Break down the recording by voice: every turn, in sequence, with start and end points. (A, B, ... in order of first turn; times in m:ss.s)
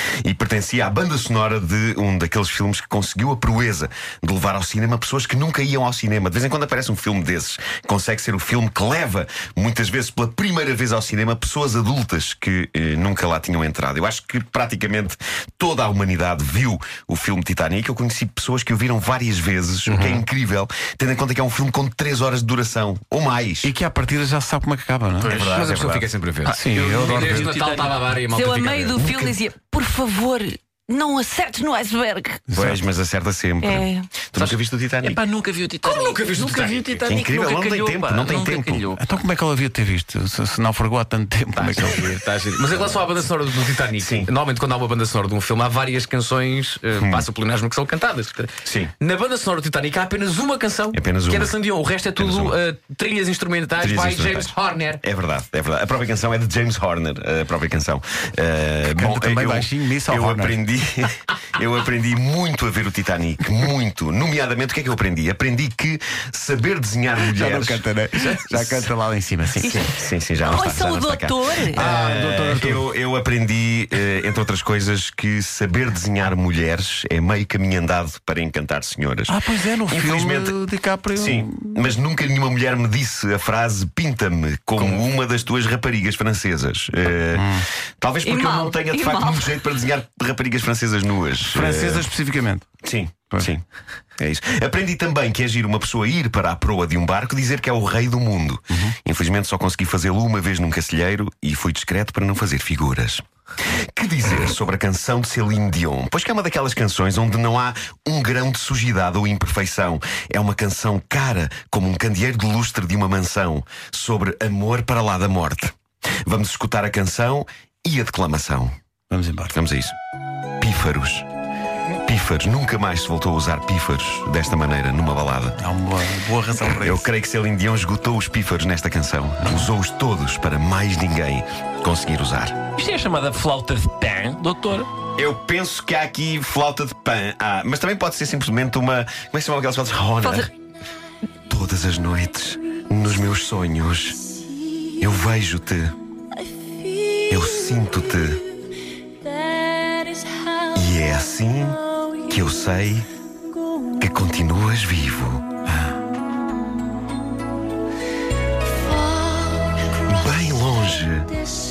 0:00.2-0:23.7 A
0:19.9-0:20.1 B
0:23.6-0:25.7 C
0:25.2-0:25.6 D
0:25.3-0:26.1 A
0:25.3-0:29.0 B
0:26.4-0:28.2 D
0:26.4-0:27.5 C
0:28.3-0:32.5 E
0:29.0-0:29.4 A
0:32.5-0:32.8 C
0:32.5-0:35.2 A
0:33.6-0:34.1 E
0:35.0-0:39.0 D
0:35.8-0:37.1 B
0:37.1-0:38.9 A
0:39.0-0:42.2 C
0:41.5-0:55.0 B
0:44.0-0:44.3 A
0:47.0-0:47.2 A
0:48.6-0:48.9 A
0:50.9-0:51.5 A
0:52.2-0:52.6 A
0:53.8-1:08.9 A
0:58.9-1:00.6 C
1:07.3-1:09.7 C
1:09.6-1:19.3 A
1:09.6-1:09.9 E
1:10.4-1:11.8 E
1:11.7-1:12.8 C
1:19.3-1:21.8 C
1:19.9-1:20.5 A
1:21.1-1:32.1 A
1:27.3-1:27.6 C
1:28.2-1:29.6 E
1:31.5-1:32.7 C
1:32.8-1:33.6 A
1:34.2-1:58.7 A
1:59.1-1:59.5 C
1:59.5-1:59.9 A
2:00.6-2:01.3 A
2:02.0-2:05.6 A
2:05.6-2:07.0 C
2:06.8-2:12.6 A
2:12.8-2:14.9 D
2:15.2-2:20.5 A
2:20.2-2:20.5 E
2:21.5-2:24.2 A
2:25.0-2:25.9 A
2:27.3-2:28.4 A
2:30.7-2:33.1 A
2:34.0-2:35.4 A
2:39.1-2:39.5 E
2:40.0-2:41.3 A